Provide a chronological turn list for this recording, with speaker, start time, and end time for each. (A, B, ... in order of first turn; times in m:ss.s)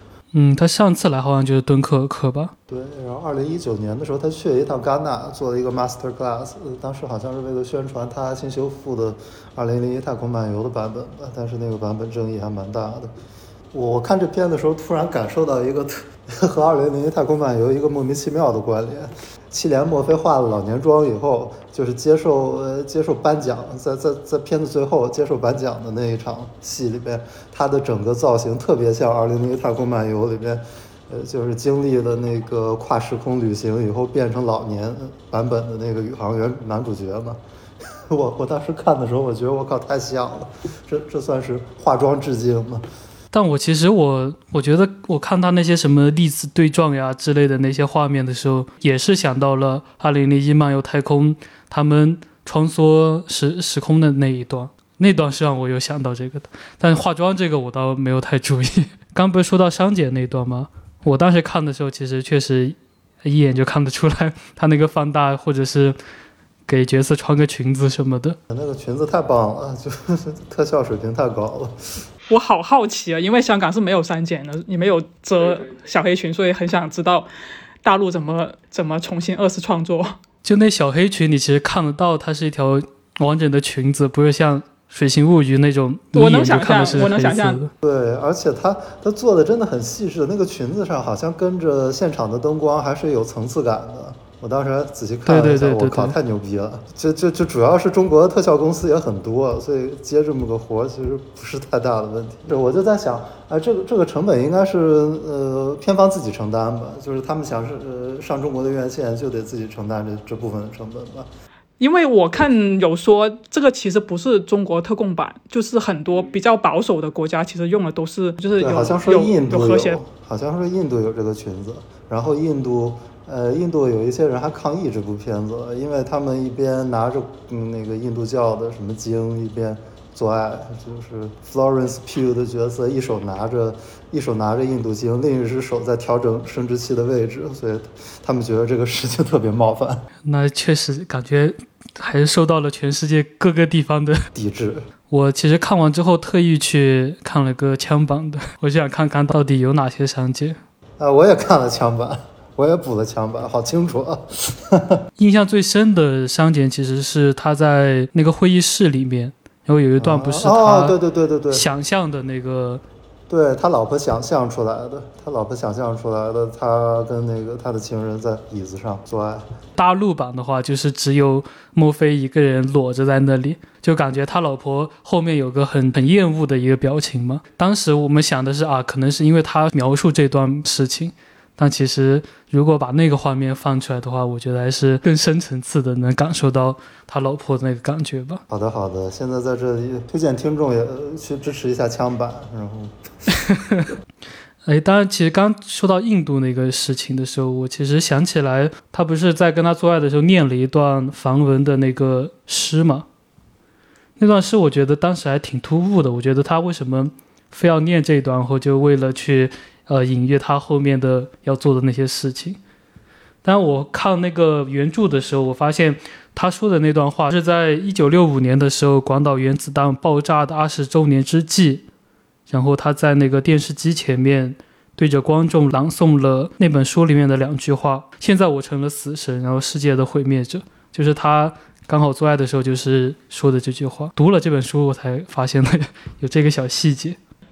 0:00.3-0:02.5 A
0:02.7-0:13.1 B
0:13.7-0:37.4 B
0:37.9-0:42.8 B
0:43.3-1:06.0 A
1:06.7-1:08.4 A
1:08.5-1:11.8 B
1:12.3-1:17.3 C
1:17.8-1:20.2 C
1:20.4-1:27.7 A
1:26.2-1:27.6 C
1:27.8-1:51.3 B
1:35.3-1:36.2 A
1:51.8-2:00.0 C
1:58.6-2:20.0 B
2:20.2-2:24.3 A
2:24.3-2:24.8 B
2:25.1-2:30.6 A
2:31.0-2:35.1 B
2:35.2-2:41.0 A
2:40.0-2:41.7 B
2:41.5-2:42.8 A
2:43.3-2:49.4 B
2:49.8-3:08.4 A
3:08.5-3:13.0 B
3:13.4-3:13.9 A
3:14.6-3:23.1 A
3:24.2-3:32.6 A
3:33.4-3:41.8 A
3:42.5-3:57.2 A